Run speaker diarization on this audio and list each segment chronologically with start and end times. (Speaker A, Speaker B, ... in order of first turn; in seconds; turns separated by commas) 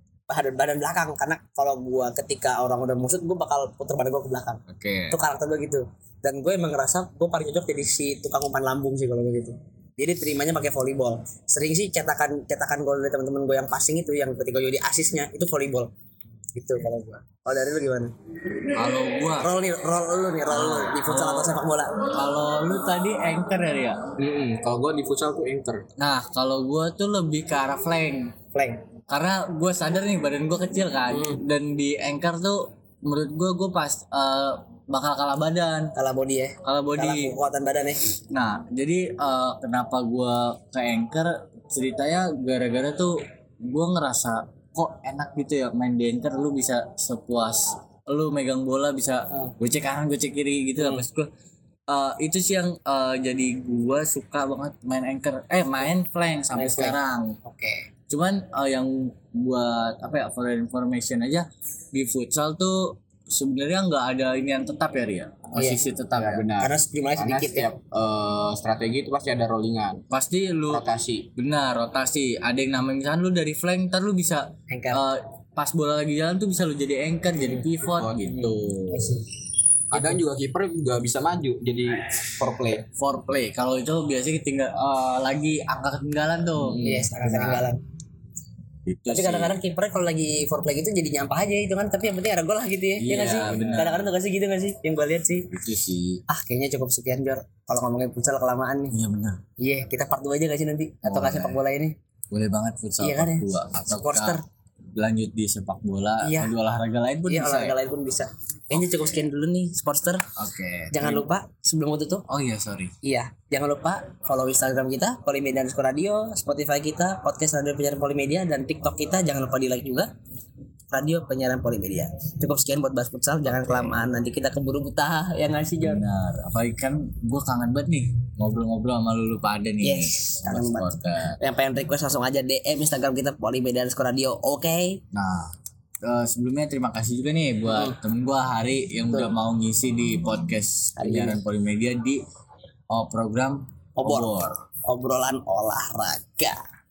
Speaker A: 0.3-15.9, Speaker B: 4.7-5.2, Speaker A: 16.5-18.1, Speaker B: 18.7-19.5, Speaker A: 19.4-22.0, Speaker B: 20.5-24.0, Speaker C: 24.2-25.8, Speaker B: 26.0-28.3, Speaker A: 28.5-28.8, Speaker B: 29.1-35.9, Speaker A: 31.1-31.4, Speaker A: 35.9-38.0, Speaker B: 36.6-37.3, Speaker B: 38.3-43.1, Speaker B: 43.7-51.3, Speaker A: 50.8-51.0, Speaker B: 51.9-57.3, Speaker A: 56.5-57.9, Speaker B: 58.1-66.4, Speaker A: 65.5-65.8, Speaker C: 66.1-70.0, Speaker A: 66.6-67.7, Speaker B: 70.1-70.8, Speaker C: 70.7-71.3, Speaker B: 71.4-79.2, Speaker A: 74.7-75.0, Speaker C: 77.8-78.6, Speaker A: 78.9-79.3, Speaker B: 79.9-80.2, Speaker C: 79.9-82.8, Speaker B: 83.0-87.6, Speaker C: 86.5-87.1, Speaker A: 86.8-87.8, Speaker B: 88.8-89.6, Speaker A: 89.0-95.5, Speaker B: 93.0-94.0, Speaker C: 93.2-94.0, Speaker B: 95.5-96.2, Speaker A: 96.3-98.9, Speaker B: 98.9-99.4, Speaker A: 99.6-101.9, Speaker B: 101.0-101.6, Speaker B: 102.3-104.4, Speaker A: 103.0-104.4, Speaker B: 105.0-107.8, Speaker A: 106.2-106.5, Speaker A: 107.3-110.2, Speaker B: 110.4-111.2, Speaker A: 110.9-112.2, Speaker B: 112.3-112.9, Speaker A: 113.0-120.1, Speaker A: 120.9-126.0, Speaker B: 125.8-131.4, Speaker A: 129.8-135.0, Speaker B: 135.1-135.5, Speaker B: 136.0-142.2, Speaker A: 137.7-138.0, Speaker A: 141.0-141.4, Speaker B: 142.9-144.6, Speaker A: 144.0-146.6